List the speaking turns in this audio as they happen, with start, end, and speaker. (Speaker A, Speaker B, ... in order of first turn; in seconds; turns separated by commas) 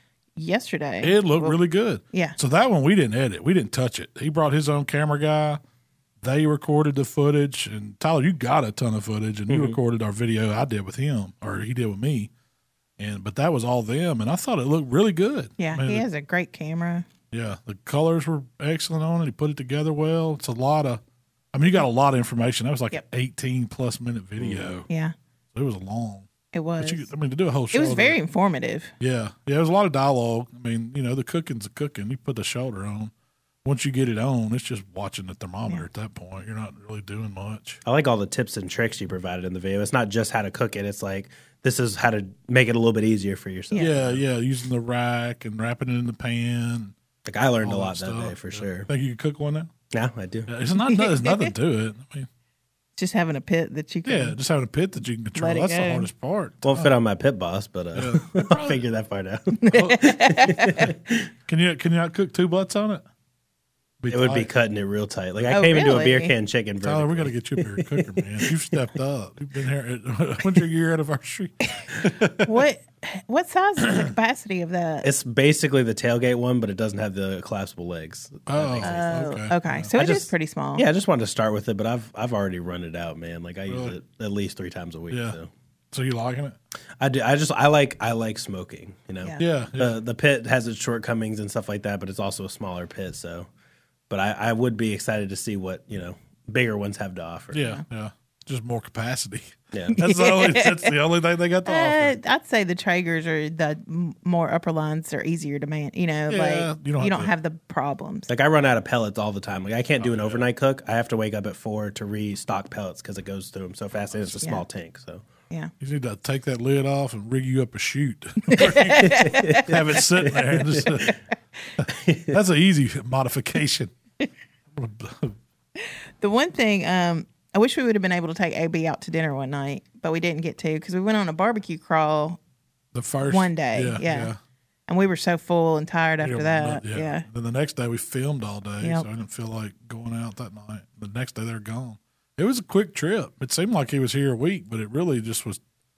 Speaker A: 0.3-1.6, Speaker B: 1.0-5.6, Speaker A: 2.1-2.4, Speaker B: 6.2-12.3, Speaker C: 9.5-9.8, Speaker B: 13.0-16.1, Speaker A: 15.6-17.1, Speaker B: 17.3-21.0, Speaker B: 21.5-24.9, Speaker C: 24.4-24.7, Speaker A: 24.9-25.1, Speaker B: 25.5-26.3, Speaker A: 26.5-27.1, Speaker B: 26.8-28.2, Speaker A: 27.7-28.9, Speaker B: 29.0-33.1, Speaker B: 33.6-37.8, Speaker C: 37.8-44.2, Speaker B: 43.8-46.9, Speaker C: 47.2-48.9, Speaker B: 47.6-49.7, Speaker C: 49.9-50.5, Speaker B: 50.5-52.3, Speaker A: 50.8-51.5, Speaker A: 53.0-54.4, Speaker B: 54.0-56.9, Speaker A: 55.3-56.1, Speaker C: 56.6-61.3, Speaker B: 57.9-58.8, Speaker A: 59.6-60.9, Speaker B: 59.7-60.1, Speaker B: 61.5-63.0, Speaker B: 64.0-64.5, Speaker C: 64.1-68.8, Speaker A: 65.5-66.3, Speaker B: 66.8-72.5, Speaker A: 72.4-75.1, Speaker B: 73.8-74.1, Speaker C: 75.0-79.2, Speaker B: 78.5-80.2, Speaker A: 78.8-80.8, Speaker C: 80.7-85.5, Speaker B: 83.7-84.0, Speaker B: 85.1-85.4, Speaker B: 85.9-86.6, Speaker C: 87.0-93.5, Speaker B: 89.4-90.0, Speaker C: 94.1-97.6, Speaker B: 97.5-102.2, Speaker C: 99.7-100.0, Speaker A: 99.9-100.9, Speaker A: 101.6-108.3, Speaker B: 106.3-107.3, Speaker C: 108.3-115.2, Speaker B: 110.0-110.5, Speaker B: 114.1-114.5, Speaker B: 115.8-121.2, Speaker A: 118.5-119.8, Speaker C: 119.0-121.2, Speaker B: 121.8-123.9, Speaker C: 121.9-122.3, Speaker B: 124.7-125.3, Speaker A: 125.8-132.4, Speaker B: 132.9-134.4, Speaker A: 133.3-134.3, Speaker A: 134.9-137.2, Speaker B: 136.2-145.6, Speaker A: 138.8-139.1